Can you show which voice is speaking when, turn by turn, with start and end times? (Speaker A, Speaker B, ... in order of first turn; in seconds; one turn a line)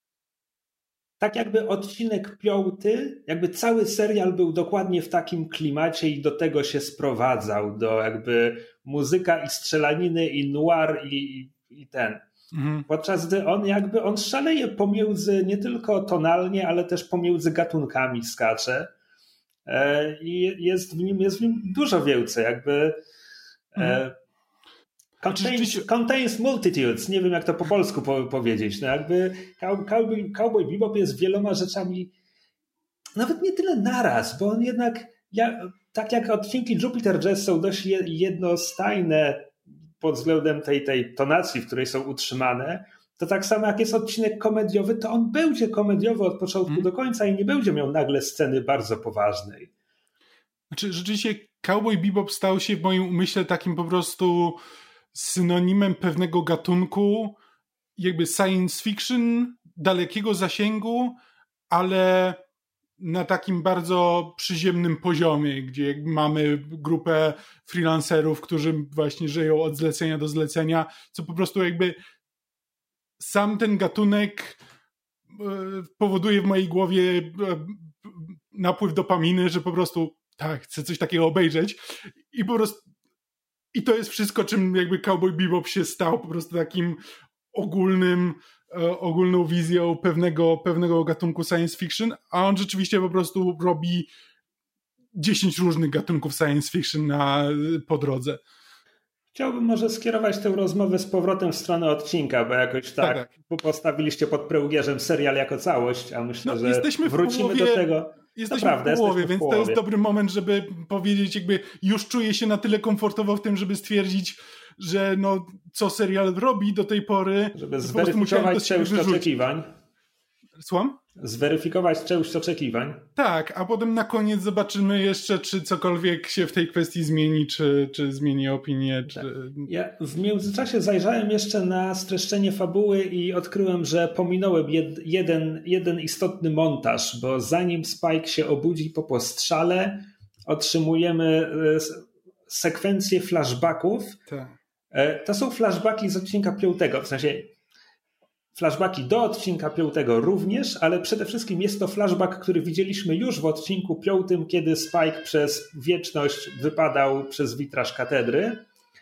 Speaker A: 1.2-12.2
Speaker B: 12.5-12.9
Speaker A: 12.9-18.9
Speaker A: 19.7-23.0
Speaker A: 23.7-24.1
Speaker A: 25.2-32.1
Speaker B: 25.4-25.9
Speaker A: 33.2-49.7
Speaker B: 50.7-54.6
Speaker B: 55.1-57.4
Speaker B: 58.0-61.2
Speaker B: 61.7-62.4
Speaker B: 63.0-72.0
Speaker B: 73.2-74.6
Speaker B: 75.3-82.8
Speaker B: 83.7-87.0
Speaker B: 87.5-94.1
Speaker B: 95.2-98.4
Speaker A: 99.3-109.8
Speaker B: 103.0-103.3
Speaker B: 106.5-119.3
Speaker A: 117.5-119.7
Speaker B: 120.6-121.0
Speaker A: 121.2-123.1
Speaker B: 123.2-129.7
Speaker A: 129.1-144.2
Speaker B: 144.3-144.6
Speaker A: 144.9-147.5
Speaker A: 148.5-158.6